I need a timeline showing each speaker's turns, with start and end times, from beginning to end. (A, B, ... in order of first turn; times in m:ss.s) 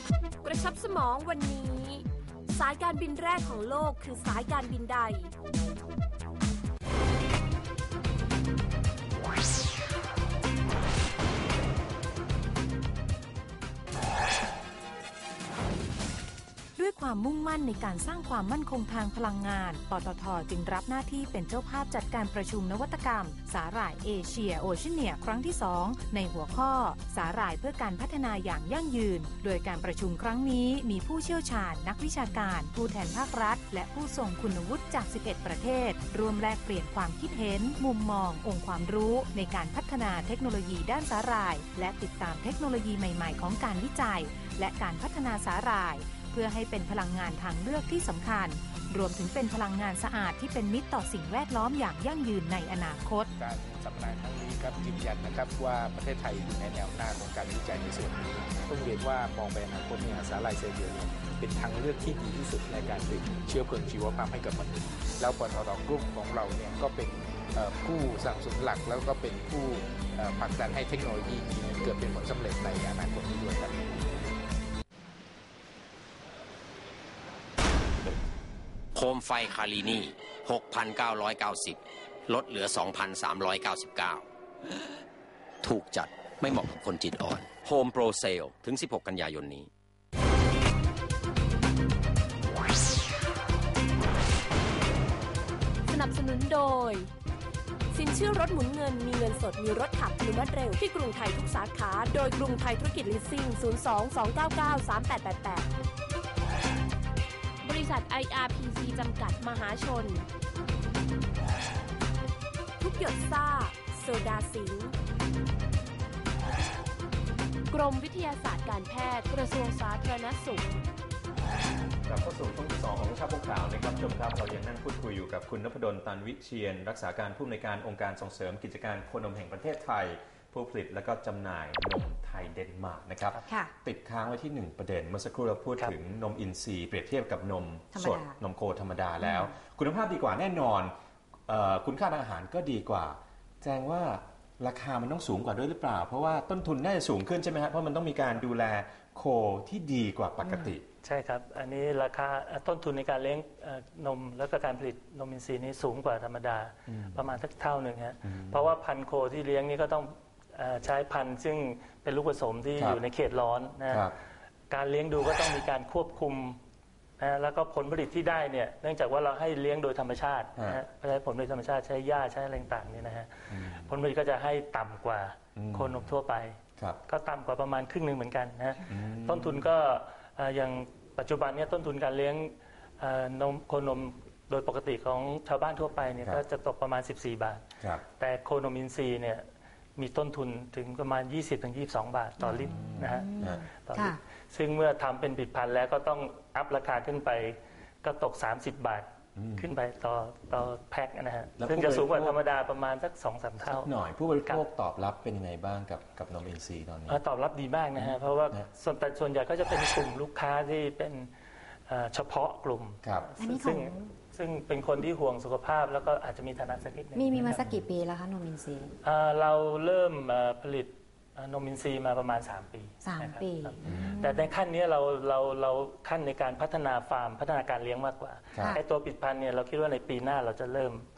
0:00.4-0:05.3 A
0:16.8-0:53.3 B
0:53.4-1:14.0 C
1:18.9-1:24.2 D
1:25.6-1:29.7 D
1:35.9-1:37.1 A
1:37.9-1:45.7 A
1:47.6-1:50.3 A
1:52.8-1:54.9 A
1:57.7-2:00.6 A
2:02.1-2:20.9 E
2:13.5-2:13.7 F
2:17.9-2:18.4 F
2:19.2-2:19.5 F
2:21.5-2:30.8 E
2:30.4-2:44.1 G
2:36.9-2:37.2 E
2:38.2-2:38.6 E
2:43.9-2:44.1 E
2:44.7-2:46.6 G
2:47.2-3:07.6 G
2:53.5-2:53.9 E
2:55.6-2:56.1 E
2:58.9-2:59.7 E
3:08.2-3:09.4 G
3:10.0-3:23.9 G
3:12.4-3:14.2 F
3:12.6-3:13.6 E
3:19.4-3:19.6 E
3:21.6-3:22.4 E
3:23.6-3:27.2 E
3:27.1-3:31.3 G
3:28.0-3:28.7 E
3:31.9-3:37.6 G
3:33.4-3:34.1 F
3:37.1-3:38.9 F
3:39.0-3:51.0 G
3:43.0-3:44.5 F
3:43.8-3:44.2 E